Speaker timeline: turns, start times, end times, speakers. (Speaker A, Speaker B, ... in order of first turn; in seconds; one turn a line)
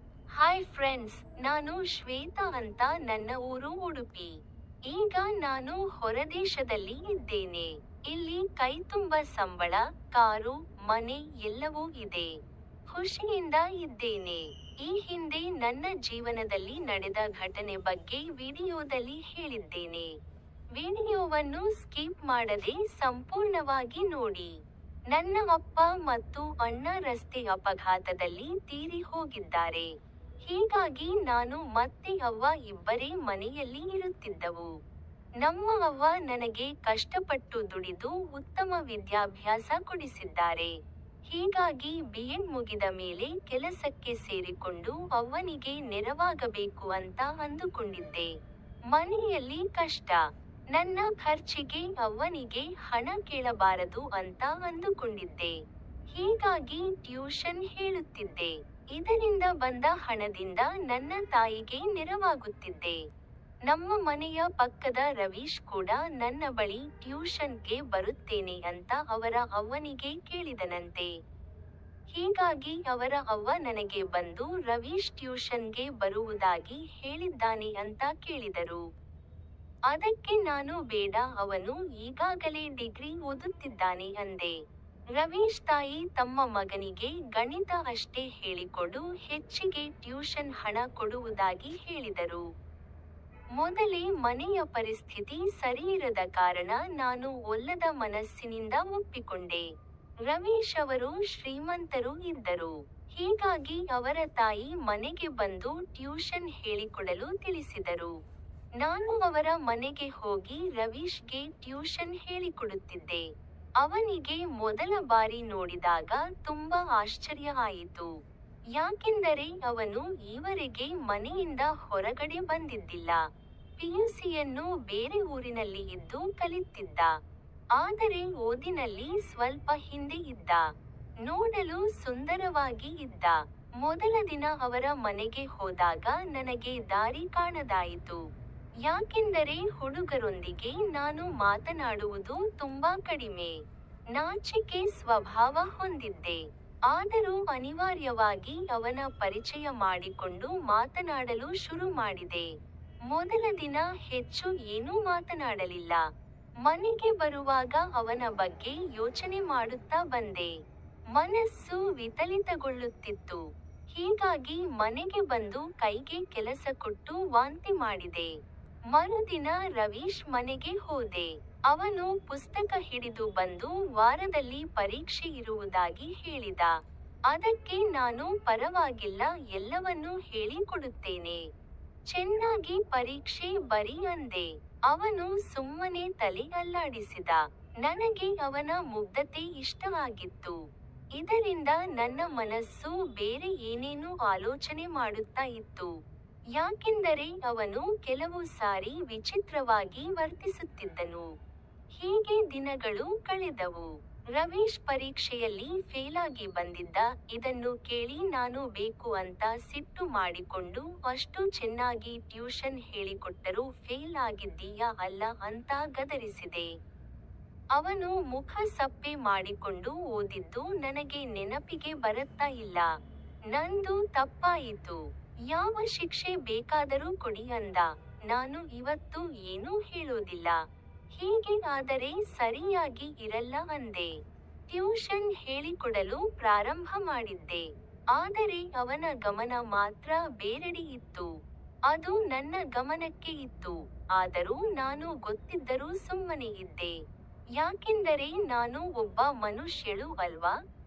Speaker A: 0.4-4.3
Speaker A: 4.9-12.3
Speaker A: 12.9-20.1
Speaker A: 20.8-24.5
Speaker A: 25.1-29.9
Speaker A: 30.5-34.7
Speaker A: 35.4-40.7
Speaker A: 41.3-48.3
Speaker A: 48.9-50.2
Speaker A: 50.7-55.5
Speaker A: 56.1-63.0
Speaker A: 63.7-71.1
Speaker A: 72.1-78.8
Speaker A: 79.9-84.5
Speaker A: 85.2-92.4
Speaker A: 93.6-99.6
Speaker A: 100.3-108.1
Speaker A: 108.8-113.2
Speaker A: 113.8-118.1
Speaker A: 118.8-123.2
Speaker A: 123.8-127.1
Speaker A: 127.8-130.6
Speaker A: 131.2-138.2
Speaker A: 138.8-143.5
Speaker A: 144.2-152.5
Speaker A: 153.1-156.0
Speaker A: 156.7-160.5
Speaker A: 161.2-163.4
Speaker A: 163.9-168.3
Speaker A: 168.9-176.7
Speaker A: 177.3-181.4
Speaker A: 182.1-190.6
Speaker A: 191.2-195.9
Speaker A: 196.6-201.2
Speaker A: 202.0-216.7
Speaker A: 217.8-222.9
Speaker A: 223.5-225.0
Speaker A: 225.5-230.6
Speaker A: 231.2-234.1
Speaker A: 234.7-241.3
Speaker A: 241.9-246.9
Speaker A: 247.6-250.5